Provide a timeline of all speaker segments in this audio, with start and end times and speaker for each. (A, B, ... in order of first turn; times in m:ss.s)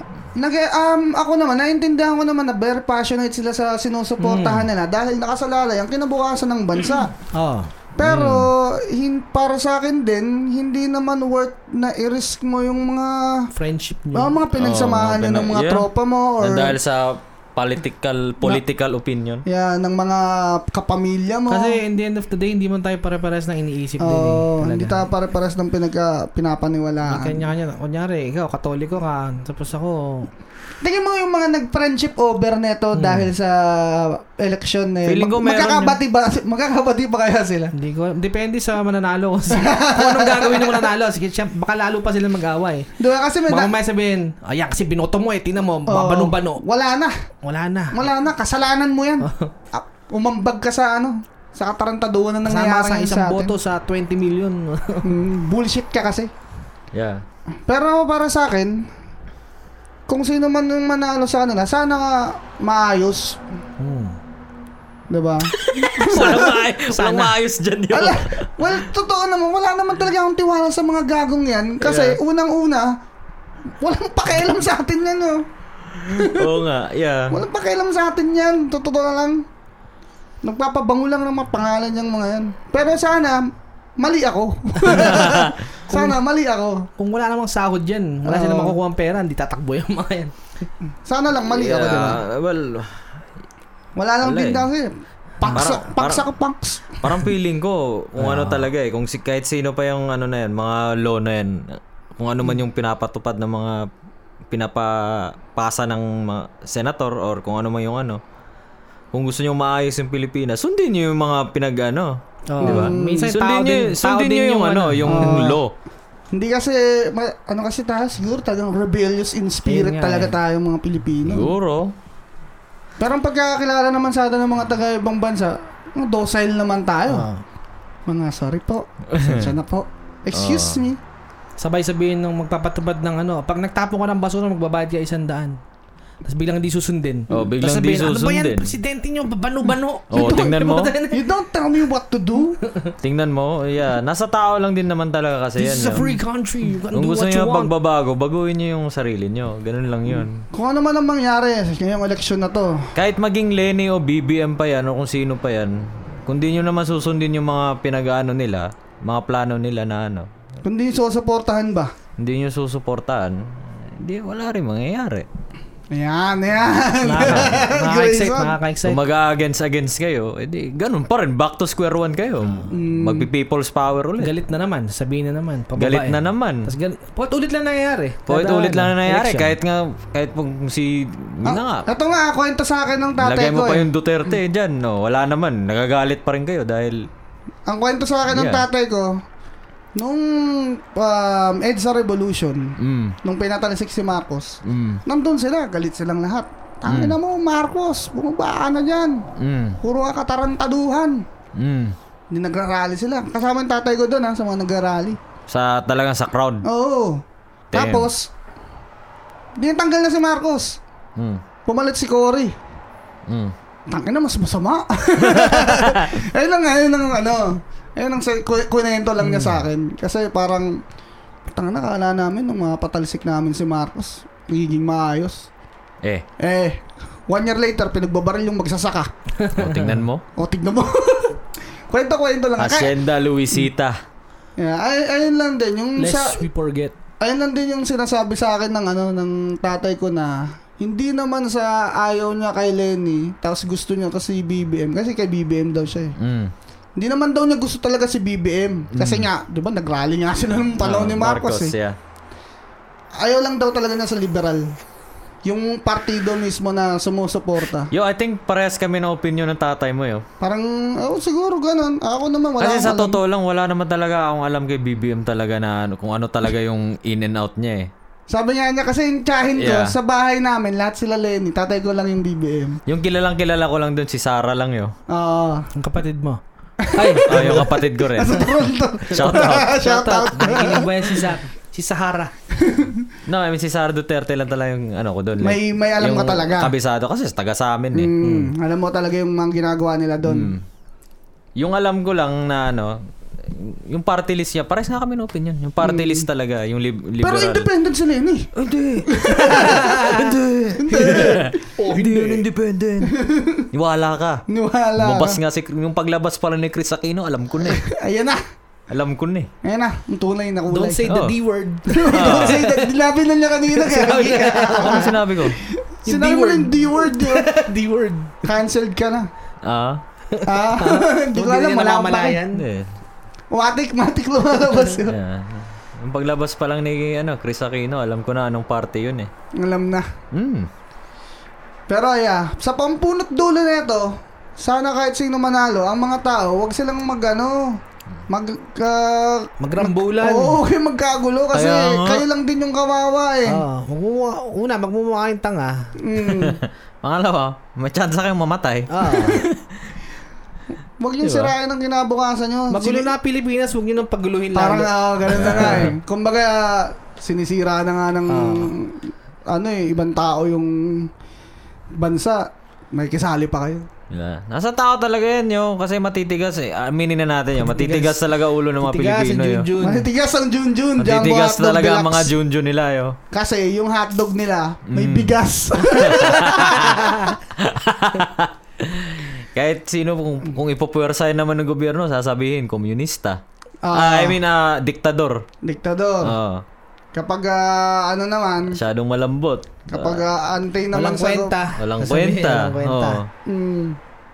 0:00.4-0:07.1 A
0:04.2-0:04.6 B
0:07.3-0:07.7 B
0:08.0-0:13.5 A
0:08.0-0:08.5 C
0:13.5-0:14.3 B
0:14.1-0:16.8 A
0:14.6-0:15.9 C
0:16.4-0:19.4 C
0:19.4-0:21.8 A
0:21.5-0:25.0 B
0:24.0-0:27.4 A
0:27.0-0:30.3 B
0:30.8-0:37.7 A
0:33.0-0:33.3 B
0:35.1-0:36.0 C
0:37.7-0:42.9 B
0:39.5-0:40.9 A
0:43.0-0:43.7 A
0:43.5-0:46.6 B
0:45.9-0:47.1 A
0:47.4-0:48.0 B
0:47.9-0:53.6 A
0:49.2-0:49.5 B
0:52.4-0:55.1 B
0:55.0-0:56.3 A
0:56.9-0:57.2 C
0:57.7-0:58.9 A
1:00.1-1:03.4 A
1:03.8-1:04.2 B
1:05.1-1:06.6 A
1:05.7-1:08.7 C
1:05.8-1:07.4 B
1:07.9-1:12.9 A
1:11.8-1:12.2 C
1:13.8-1:15.4 A
1:16.0-1:17.4 C
1:16.1-1:16.6 A
1:17.3-1:19.4 A
1:20.4-1:26.9 A
1:24.9-1:25.6 C
1:25.9-1:26.2 B
1:27.0-1:30.4 B
1:28.2-1:28.8 A
1:31.1-1:32.2 A
1:31.5-1:33.0 C
1:34.0-1:37.0 A
1:34.2-1:34.7 C
1:35.4-1:35.7 B
1:35.5-1:36.3 C
1:37.0-1:43.9 C
1:38.2-1:38.7 B
1:44.5-1:48.2 C
1:49.1-1:55.7 C
1:52.5-1:55.4 B
1:52.6-1:53.3 A
1:55.0-1:55.6 A
1:56.3-2:01.5 A
1:59.6-2:00.4 B
2:01.2-2:01.9 C
2:03.0-2:07.3 A
2:07.1-2:07.4 B
2:08.1-2:11.0 A
2:09.1-2:09.5 C
2:10.3-2:10.8 C
2:11.6-2:15.6 B
2:16.2-2:21.3 B
2:17.3-2:18.7 C
2:20.1-2:20.9 C
2:20.1-2:20.5 A
2:21.1-2:22.6 A
2:22.7-2:22.9 B
2:23.0-2:26.1 C
2:25.6-2:27.7 B
2:26.9-2:30.4 C
2:30.5-2:32.9 A
2:33.0-2:40.3 C
2:40.6-2:41.9 A
2:42.2-2:45.3 C
2:45.9-2:48.6 A
2:47.0-2:49.0 B
2:47.2-2:47.5 C
2:48.8-2:54.3 C
2:52.7-2:53.3 A
2:54.2-2:59.5 B
2:55.8-2:56.7 C
2:58.3-3:01.9 C
3:01.4-3:03.9 A
3:03.2-3:07.1 C
3:07.7-3:09.2 A
3:08.3-3:08.6 C
3:10.0-3:19.2 A
3:12.8-3:13.2 C
3:14.6-3:15.0 C
3:16.9-3:17.2 C
3:19.4-3:19.8 C
3:19.8-3:21.2 A
3:21.6-3:22.0 C
3:22.3-3:25.2 A
3:25.5-3:26.7 C
3:26.6-3:27.2 A
3:27.7-3:28.1 C
3:27.7-3:28.3 A
3:29.6-3:30.8 A
3:31.2-3:31.4 C
3:31.7-3:32.5 A
3:33.3-3:33.5 C
3:33.9-3:40.8 A
3:35.2-3:36.2 C
3:39.2-3:39.6 B
3:41.5-3:45.5 A
3:46.4-3:49.1 A
3:49.4-3:50.0 B
3:49.6-3:50.2 C
3:50.4-3:52.9 A
3:52.6-3:54.0 C
3:54.6-3:56.4 A
3:56.0-3:56.9 B
3:57.2-4:06.1 A
4:06.2-4:06.5 C
4:07.0-4:11.7 A
4:08.9-4:09.3 C
4:10.8-4:12.0 C
4:13.2-4:14.7 A
4:15.4-4:17.9 A
4:17.9-4:20.2 C
4:20.4-4:23.2 A
4:22.6-4:27.9 C
4:28.3-4:32.8 A
4:29.6-4:30.0 C
4:32.9-4:34.9 C
4:35.1-4:35.7 A
4:35.7-4:36.4 B
4:36.8-4:41.2 A
4:36.9-4:37.7 B
4:37.3-4:39.8 C
4:39.7-4:42.3 B
4:42.5-4:43.1 A
4:43.3-4:48.1 C
4:45.4-4:46.7 A
4:47.9-4:50.5 A
4:48.2-4:48.5 B
4:50.3-4:50.6 C
4:51.6-4:57.7 C
4:55.8-4:56.3 A
4:57.2-4:58.5 A
4:58.6-5:03.2 C
4:59.1-5:00.1 A
4:59.4-5:00.3 B
5:00.8-5:01.6 A
5:01.8-5:02.4 B
5:03.0-5:03.7 A
5:03.7-5:04.4 C
5:04.5-5:05.4 A
5:05.0-5:07.8 C
5:07.6-5:08.4 A
5:08.9-5:09.5 C
5:09.6-5:11.1 A
5:10.7-5:12.9 B
5:11.1-5:11.4 C
5:11.9-5:17.5 A
5:12.1-5:12.6 C
5:13.7-5:15.1 B
5:14.8-5:15.6 C
5:16.1-5:18.4 B
5:18.4-5:19.3 A
5:19.6-5:20.0 C
5:20.3-5:22.6 B
5:20.4-5:22.4 A
5:22.5-5:22.9 C
5:23.5-5:25.1 A
5:25.1-5:29.3 C
5:29.6-5:30.1 A
5:30.3-5:30.7 C
5:31.9-5:43.6 A
5:39.6-5:40.6 B
5:41.5-5:42.2 C
5:43.4-5:45.9 B
5:46.0-5:46.6 A
5:46.3-5:49.6 C
5:48.9-5:49.5 B
5:51.0-5:53.1 A
5:52.7-5:54.9 B
5:54.5-6:01.1 A
5:55.3-5:56.0 C
5:58.3-5:58.7 B
6:02.0-6:03.9 A
6:04.1-6:09.7 C
6:07.6-6:08.2 B
6:08.8-6:10.1 B
6:09.8-6:12.3 A
6:11.0-6:13.2 C
6:13.3-6:17.4 A
6:14.9-6:15.4 C
6:15.9-6:23.4 C
6:23.8-6:24.4 A
6:23.9-6:25.4 C
6:25.6-6:26.4 A
6:26.2-6:26.6 C
6:27.1-6:28.8 A
6:28.7-6:30.2 C
6:29.9-6:31.6 A
6:30.9-6:33.2 B
6:31.8-6:33.3 C
6:33.4-6:34.0 A